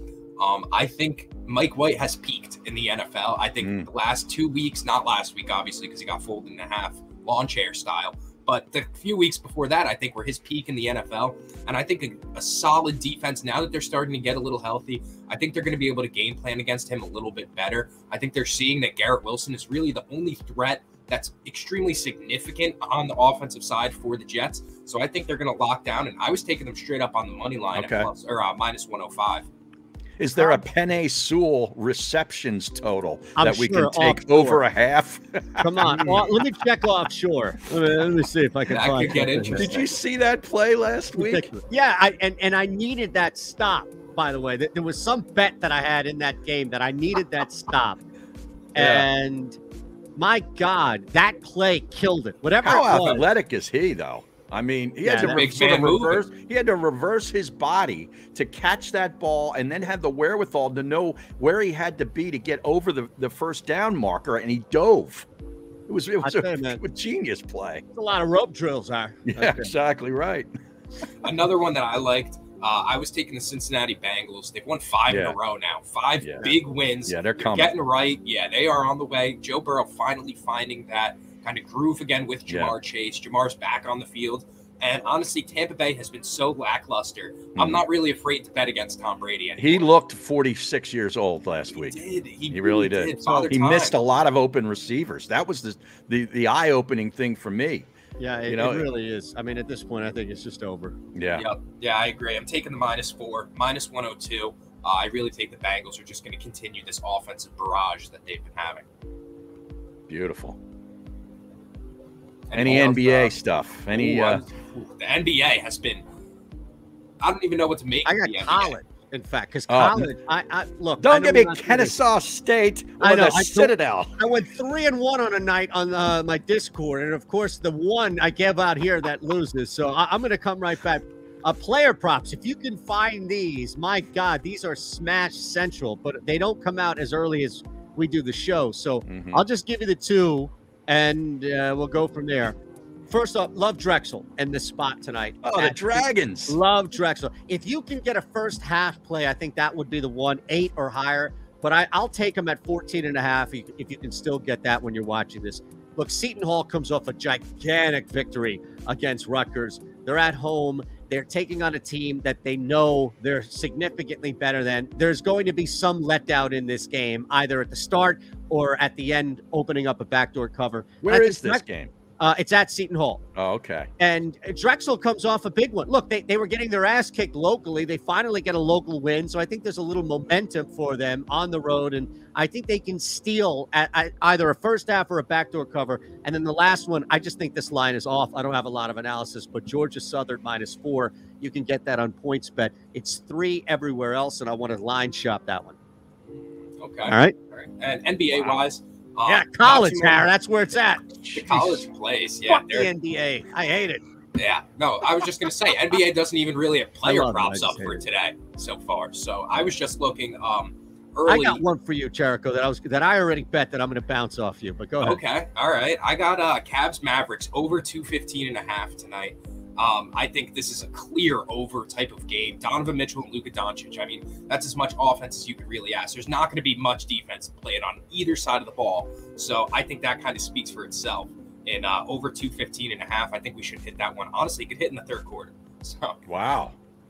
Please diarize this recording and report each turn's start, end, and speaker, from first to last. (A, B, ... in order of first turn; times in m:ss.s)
0:00.4-0:29.5 A
0:27.7-0:28.1 B
0:30.2-0:36.3 B
0:30.4-0:30.6 C
0:33.4-0:34.6 C
0:35.6-0:39.8 C
0:35.9-0:36.2 A
0:38.7-0:39.8 A
0:39.6-0:41.5 B
0:41.1-0:48.0 C
0:48.7-0:49.6 C
0:48.8-0:49.0 B
0:50.2-0:53.2 C
0:52.6-1:05.3 B
0:55.0-0:55.4 C
0:55.2-0:56.2 A
1:05.9-1:07.8 B
1:06.2-1:06.8 C
1:07.9-1:09.7 C
1:09.2-1:10.5 B
1:11.2-1:29.8 A
1:15.1-1:15.4 B
1:16.2-1:16.5 B
1:17.1-1:17.7 B
1:22.5-1:22.7 B
1:27.5-1:27.8 B
1:29.6-1:32.0 B
1:31.7-1:34.0 A
1:32.5-1:37.9 B
1:38.2-1:41.0 C
1:38.5-1:38.9 B
1:41.1-1:41.5 B
1:41.4-1:48.8 A
1:50.1-1:50.6 B
1:52.5-1:53.3 A
1:52.5-1:54.4 B
1:53.9-1:56.0 A
1:57.2-1:58.7 A
1:58.0-2:02.0 C
1:59.7-2:00.1 B
2:01.0-2:04.2 B
2:03.0-2:22.6 C
2:19.0-2:19.4 B
2:23.1-2:51.6 C
2:25.4-2:26.6 B
2:51.0-2:51.9 B
2:52.2-2:53.2 C
2:53.4-2:53.9 B
2:54.0-3:15.8 C
3:16.8-3:20.3 A
3:17.1-3:17.3 C
3:18.3-3:18.6 B
3:19.2-3:21.0 C
3:21.2-3:21.8 B
3:21.3-3:22.9 A
3:22.5-3:24.0 C
3:24.3-3:31.6 A
3:27.0-3:28.0 C
3:31.3-3:35.2 C
3:35.0-3:56.2 A
3:56.3-3:56.7 B